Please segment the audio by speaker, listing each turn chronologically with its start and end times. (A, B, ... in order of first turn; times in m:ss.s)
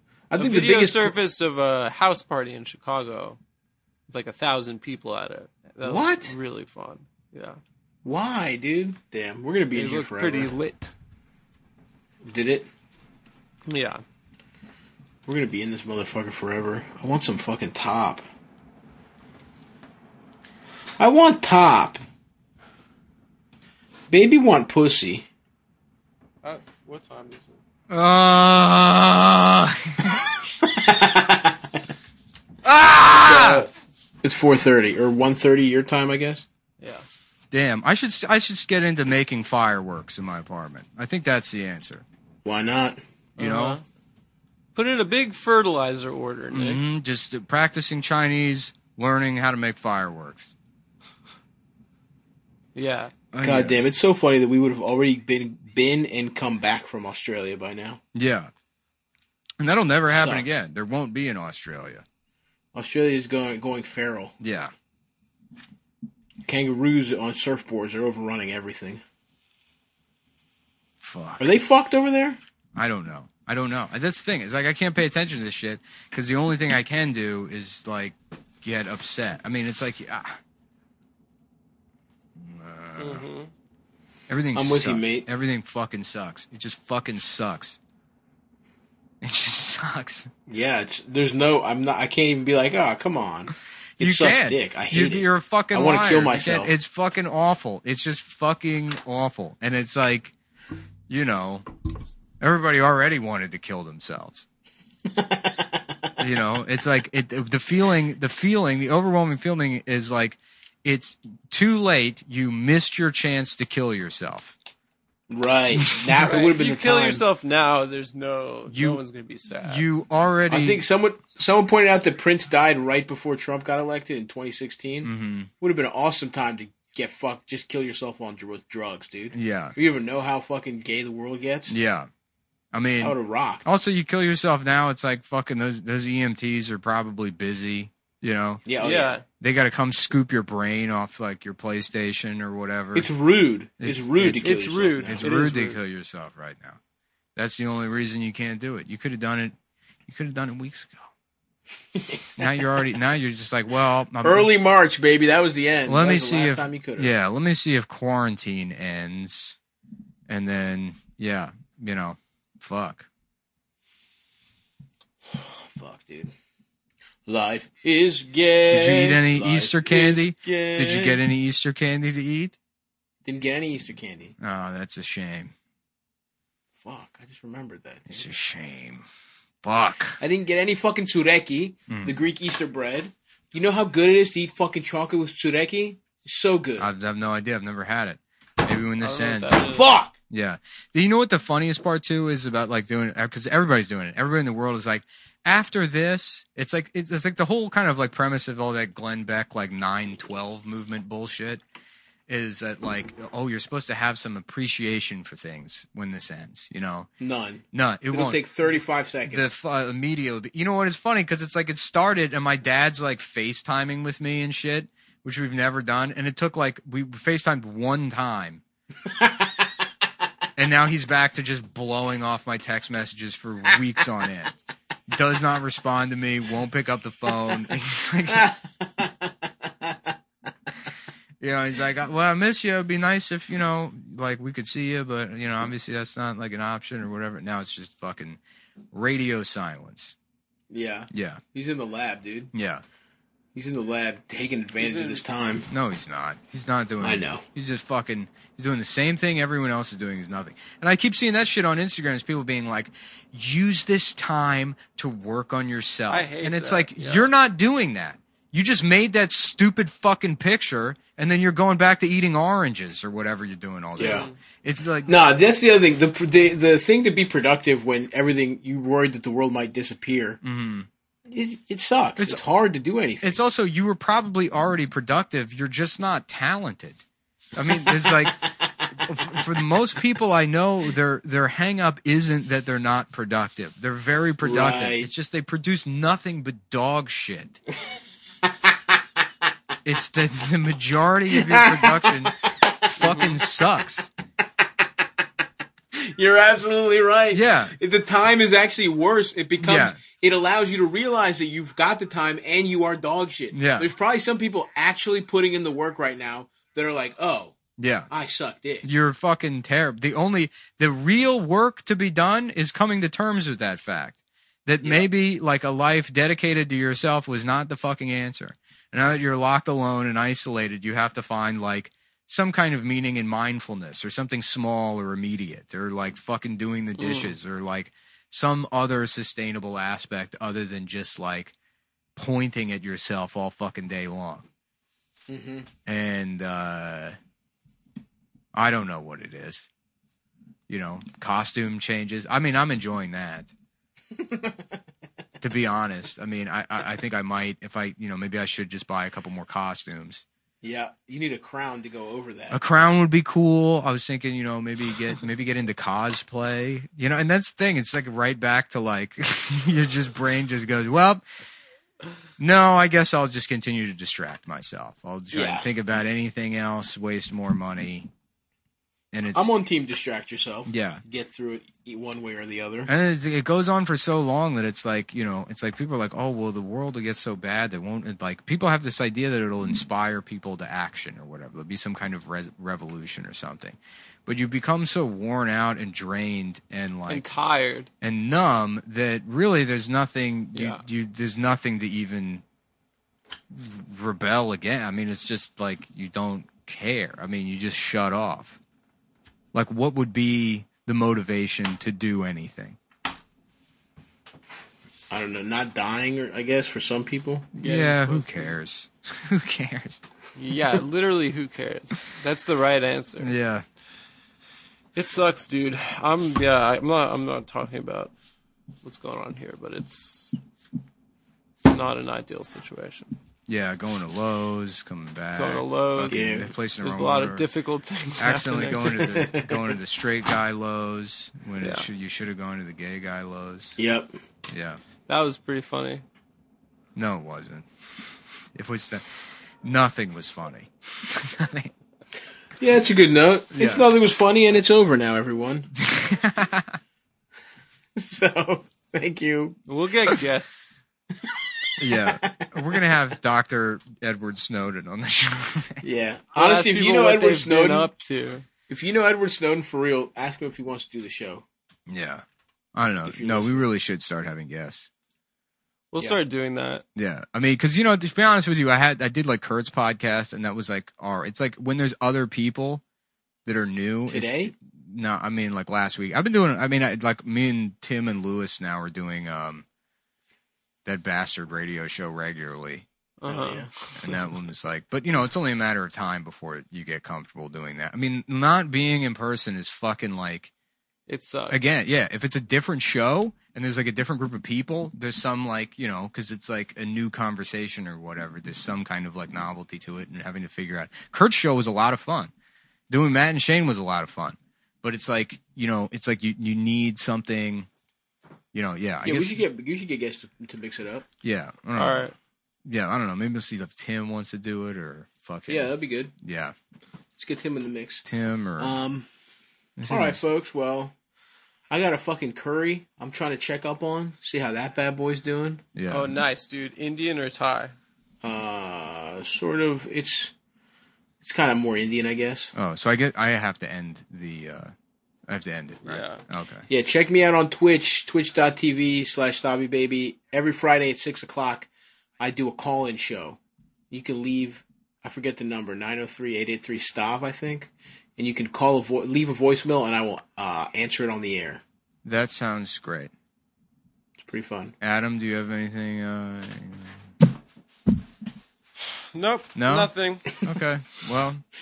0:00.3-0:01.2 A
0:00.4-0:03.4 B
0:04.1-0:07.6 B
0:05.8-0:06.3 A
0:08.0-0:10.5 A
0:09.7-0:10.9 B
0:12.2-0:12.7 A
0:13.7-0:14.0 B
0:15.3-0:18.2 A
0:21.0-0:22.0 A
0:24.1-0:25.3 A
0:26.4-0:27.6 B
0:27.9-0:30.2 C
0:30.6-0:31.8 A
0:32.6-0:33.7 C
0:33.2-0:36.4 A
0:36.8-0:37.0 B
0:37.5-0:42.0 C
0:42.4-0:43.0 A
0:43.4-0:43.8 B
0:43.4-0:43.8 C
0:44.8-0:46.8 B
0:46.5-0:50.5 C
0:52.8-0:53.1 B
0:53.3-0:53.9 C
0:53.4-0:58.0 A
0:58.1-0:58.5 C
0:59.6-1:02.0 C
1:00.1-1:00.6 A
1:02.7-1:04.3 A
1:04.4-1:04.7 C
1:06.4-1:09.0 A
1:11.0-1:11.5 C
1:11.4-1:12.4 A
1:12.8-1:20.4 C
1:22.4-1:23.3 C
1:23.0-1:23.5 B
1:24.3-1:27.8 C
1:24.6-1:25.3 A
1:29.2-1:30.3 C
1:30.5-1:36.7 A
1:34.0-1:40.4 C
1:41.1-1:41.7 C
1:42.4-1:44.5 C
1:45.1-1:46.0 A
1:46.2-1:54.6 C
1:55.3-1:57.2 A
1:55.7-1:56.2 C
1:56.2-1:59.9 B
1:58.7-1:59.0 C
1:59.6-2:00.8 C
2:00.5-2:11.8 A
2:05.0-2:05.5 C
2:09.3-2:09.8 C
2:11.7-2:12.1 C
2:12.7-2:18.6 C
2:13.0-2:13.7 A
2:18.7-2:19.2 A
2:18.8-2:19.2 B
2:19.4-2:23.1 C
2:23.0-2:25.3 A
2:23.8-2:26.8 C
2:24.4-2:25.8 B
2:27.4-2:29.6 C
2:30.1-2:31.1 C
2:32.0-2:32.7 A
2:32.4-2:34.5 C
2:34.2-2:37.1 A
2:35.9-2:39.6 C
2:40.3-2:43.1 C
2:45.3-2:46.3 A
2:47.3-2:51.2 A
2:48.7-2:52.6 C
2:53.2-2:54.4 A
2:54.4-2:55.5 C
2:56.8-2:58.2 A
2:58.1-2:59.0 C
2:59.6-3:00.2 C
3:00.2-3:06.9 A
3:01.9-3:02.2 C
3:06.8-3:09.7 C
3:09.0-3:09.9 B
3:09.6-3:10.1 A
3:10.3-3:21.6 C
3:22.3-3:27.1 C
3:27.2-3:29.5 A
3:27.7-3:28.4 C
3:29.3-3:38.6 C
3:39.1-3:39.7 A
3:40.6-3:44.5 C
3:45.1-3:48.5 C
3:48.3-3:50.1 A
3:51.4-3:58.4 C
3:58.9-4:00.2 C
4:00.7-4:02.5 A
4:01.1-4:01.4 C
4:02.5-4:02.8 C
4:03.6-4:05.7 A
4:04.8-4:05.2 B
4:05.7-4:25.2 C
4:07.0-4:07.4 A
4:16.1-4:17.3 B
4:24.0-4:24.3 A
4:24.0-4:24.4 B
4:25.1-4:30.4 A
4:30.4-4:30.9 C
4:31.3-4:33.4 A
4:32.2-4:32.4 C
4:33.2-4:37.0 C
4:37.6-4:47.6 C
4:37.9-4:38.3 A
4:44.4-4:45.1 A
4:48.4-4:49.0 A
4:49.8-4:54.1 C
4:51.3-4:53.3 A
4:54.6-4:55.0 A
4:55.9-5:07.6 A
4:57.3-4:57.8 C
4:59.6-5:00.0 C
5:03.5-5:03.9 C
5:07.8-5:08.1 C
5:08.1-5:08.9 A
5:08.8-5:31.5 C
5:32.2-5:34.5 C
5:35.3-5:35.7 A
5:35.9-5:37.2 C
5:38.5-5:39.7 C
5:40.7-5:43.5 C
5:44.1-5:44.7 A
5:45.4-5:50.2 C
5:50.6-5:52.6 A
5:52.5-6:01.2 C
6:02.4-6:08.1 C
6:05.3-6:05.7 A
6:09.1-6:09.5 C
6:09.3-6:12.9 A
6:10.7-6:11.0 C
6:12.9-6:27.3 C
6:27.1-6:27.9 B
6:28.0-6:32.4 C
6:30.5-6:30.8 B
6:33.5-6:38.6 C
6:39.5-6:42.8 C
6:45.1-6:48.5 A
6:47.6-6:50.0 C
6:50.4-6:53.4 B
6:53.2-6:53.6 C
6:55.0-6:58.1 B
6:58.8-7:00.4 B
7:01.6-7:03.1 B
7:03.5-7:07.5 C
7:05.4-7:09.1 B
7:06.1-7:06.5 A
7:08.2-7:13.8 C
7:08.9-7:09.8 A
7:11.6-7:11.9 B
7:13.8-7:14.1 A
7:14.5-7:14.8 C
7:15.1-7:16.0 B
7:17.0-7:17.7 C
7:18.6-7:19.1 C
7:19.6-7:21.7 C
7:22.6-7:25.7 A
7:23.6-7:23.9 C
7:25.8-7:26.8 C
7:28.0-7:29.6 A
7:29.7-7:30.8 B
7:31.2-7:32.5 A
7:31.8-7:35.8 C
7:35.8-7:37.9 A
7:36.4-7:38.4 B
7:38.7-7:41.4 A
7:41.9-7:42.2 C
7:42.8-7:44.9 C
7:43.0-7:43.6 A
7:45.9-7:46.8 B
7:47.0-7:52.8 C
7:53.5-7:59.6 C
7:54.1-7:54.5 A
8:00.8-8:02.9 C
8:03.2-8:04.2 B
8:03.3-8:03.7 A
8:04.0-8:10.5 C
8:11.1-8:11.7 B
8:11.5-8:22.3 C
8:22.9-8:27.7 C
8:28.5-8:29.4 C
8:29.0-8:31.1 A
8:31.2-8:32.1 C
8:31.8-8:32.2 B
8:32.7-8:36.6 C
8:35.5-8:36.1 A
8:37.2-8:38.1 A
8:38.1-8:38.8 C
8:38.6-8:39.1 A
8:39.8-8:40.2 C
8:39.9-8:40.9 A
8:41.7-8:45.6 A
8:45.8-8:46.2 C
8:45.9-8:47.8 B
8:48.2-8:50.3 A
8:51.2-8:52.5 A
8:52.6-8:54.7 C
8:55.3-8:56.7 C
8:55.8-8:56.2 B
8:56.7-9:01.7 A
9:02.2-9:03.4 A
9:03.9-9:11.6 A
9:12.0-9:13.1 C
9:14.2-9:14.7 A
9:14.8-9:17.1 C
9:19.1-9:20.3 B
9:19.6-9:21.4 C